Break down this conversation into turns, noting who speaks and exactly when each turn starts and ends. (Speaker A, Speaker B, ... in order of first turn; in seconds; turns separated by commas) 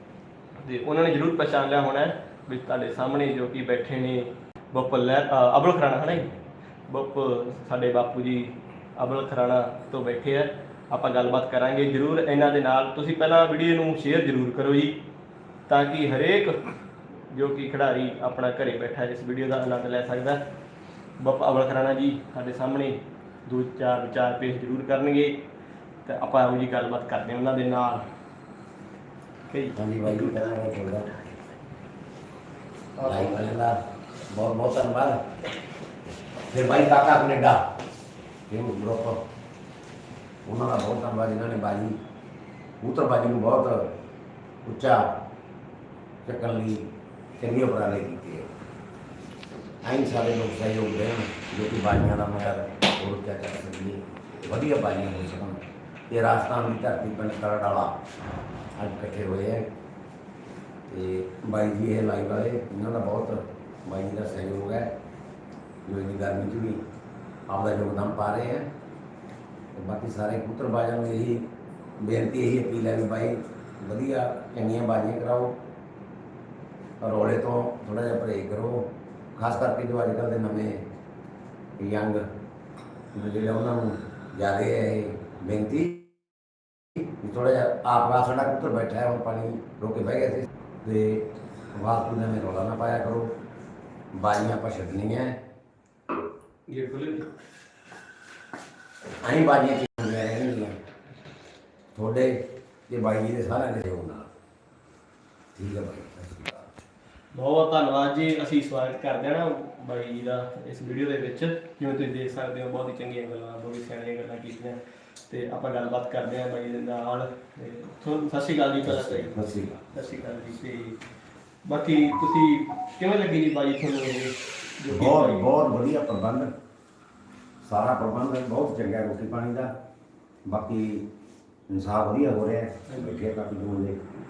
Speaker A: 0.6-6.4, Speaker A: 6.9-15.0, Speaker A: 15.7-16.7, Speaker A: 17.3-20.4, Speaker A: 21.2-25.4, Speaker A: 26.1-28.1, Speaker A: 29.5-30.4, Speaker B: 29.8-31.3, Speaker A: 33.0-33.4, Speaker B: 33.0-33.8, Speaker B: 34.3-35.2, Speaker B: 36.5-37.6, Speaker B: 38.5-39.2, Speaker B: 40.5-42.0, Speaker B: 42.8-44.0, Speaker B: 44.6-45.1, Speaker B: 46.2-46.9, Speaker B: 47.4-48.5, Speaker B: 49.8-58.0, Speaker B: 58.8-59.7, Speaker B: 60.9-64.9, Speaker B: 65.8-66.8, Speaker B: 67.5-68.7, Speaker B: 69.8-71.5, Speaker B: 72.0-75.6, Speaker B: 77.0-80.8, Speaker B: 81.8-82.2, Speaker B: 83.1-86.1, Speaker B: 87.0-93.3, Speaker B: 94.1-95.4, Speaker A: 96.7-97.3, Speaker B: 99.2-100.8, Speaker B: 102.0-102.4, Speaker B: 102.9-104.3, Speaker B: 105.5-106.6, Speaker A: 107.3-119.4, Speaker B: 118.8-119.9, Speaker A: 119.9-121.0, Speaker A: 121.7-125.5, Speaker B: 124.9-126.5, Speaker B: 127.6-129.7, Speaker B: 130.5-131.1, Speaker B: 131.7-134.0, Speaker A: 132.9-133.3